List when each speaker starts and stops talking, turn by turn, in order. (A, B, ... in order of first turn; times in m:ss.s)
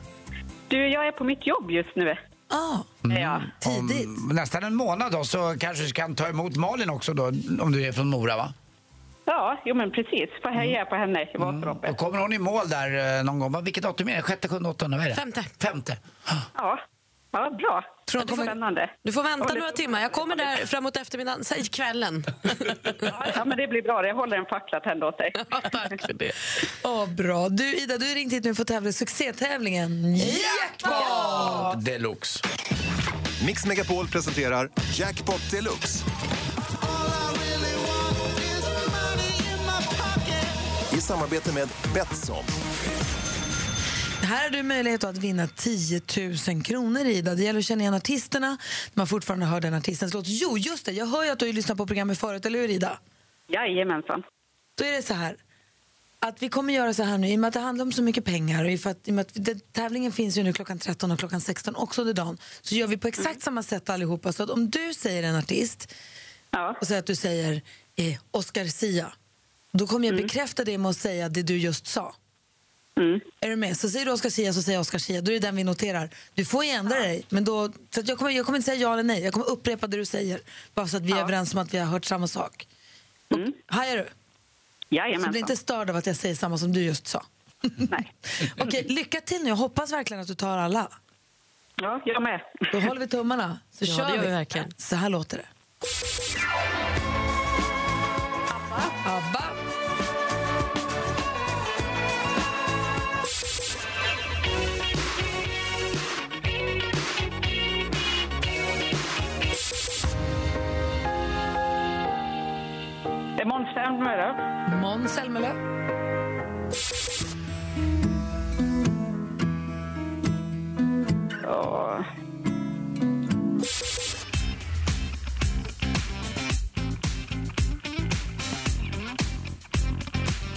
0:00.7-0:02.2 A
0:02.5-0:03.0 B
0:03.1-0:08.5 C
0:03.1-0:03.5 A
0:03.6-0:04.1 B
0:09.3-0:11.9 A
0:11.4-0:16.4 C
0:15.1-0:15.5 D
0:16.6-0:16.8 A
0:17.3-0:20.5 A
0:18.1-0:18.6 B
0:19.0-0:23.1 D
0:23.1-0:25.4 A
0:25.4-0:26.4 D
0:26.8-0:31.8 B
0:30.3-0:32.4 C
0:33.4-0:36.0 E
0:40.9-0:42.5 E
0:44.2-0:53.0 B
0:53.5-0:54.2 A
0:54.8-0:55.4 B
0:56.2-1:05.9 B
1:06.5-1:06.8 A
1:06.8-1:09.1 B
1:09.7-1:12.2 B
1:13.0-1:13.2 A
1:13.4-1:22.6 B
1:23.3-1:23.6 A
1:23.3-1:24.1 B
1:24.9-1:25.5 A
1:25.2-1:30.9 B
1:31.8-1:32.8 A
1:32.7-1:35.5 B
1:33.8-1:34.7 D
1:38.5-1:38.9 A
1:39.0-1:39.6 B
1:53.4-1:54.4 A
1:54.7-1:55.6 B
2:01.4-2:02.0 A